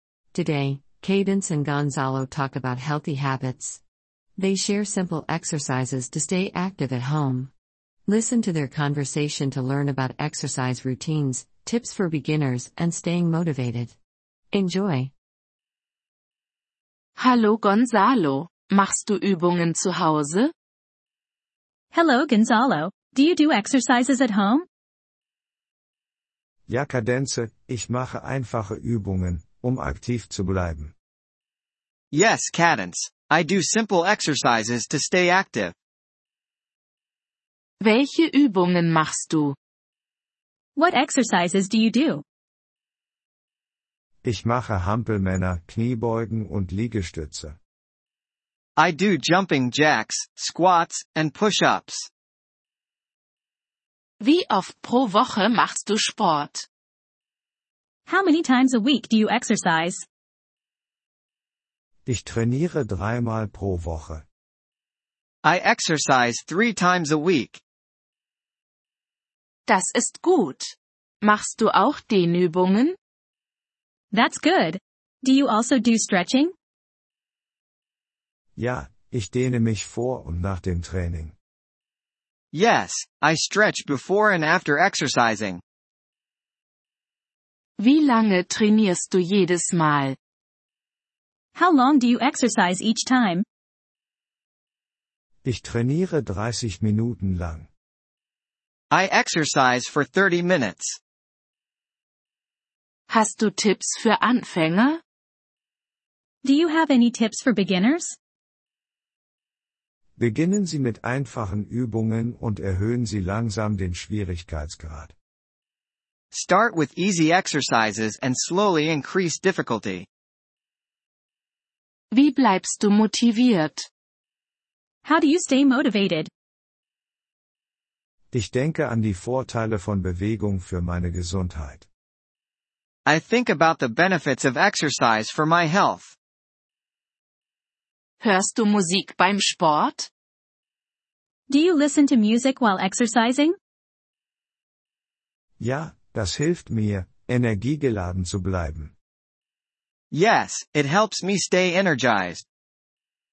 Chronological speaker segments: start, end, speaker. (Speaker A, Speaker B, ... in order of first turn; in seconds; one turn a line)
Speaker A: 0.3-3.8
Speaker A: 4.4-7.5
Speaker A: 8.1-13.9
Speaker A: 14.5-15.1
Speaker B: 17.2-20.5
Speaker C: 21.9-24.6
Speaker D: 26.7-30.9
Speaker E: 32.1-35.7
Speaker B: 37.8-39.5
Speaker C: 40.8-42.2
Speaker D: 44.2-47.6
Speaker E: 48.8-52.1
Speaker B: 54.2-56.6
Speaker C: 58.1-60.0
Speaker D: 62.0-64.2
Speaker E: 65.4-67.6
Speaker B: 69.7-73.0
Speaker C: 74.1-76.5
Speaker D: 78.5-81.3
Speaker E: 82.5-85.6
Speaker B: 87.8-90.2
Speaker C: 91.5-93.4
Speaker D: 95.4-97.7
Speaker E: 98.9-100.9
Speaker B: 103.1-105.0
Speaker C: 106.4-108.2
Speaker D: 110.2-115.1
Speaker E: 116.3-120.0
Speaker B: 122.1-123.9
Speaker C: 125.0-126.3
Speaker D: 128.3-131.8
Speaker E: 133.1-136.1
Speaker B: 138.2-140.1
Speaker C: 141.5-143.6
Speaker D: 145.6-148.9
Speaker E: 150.1-152.4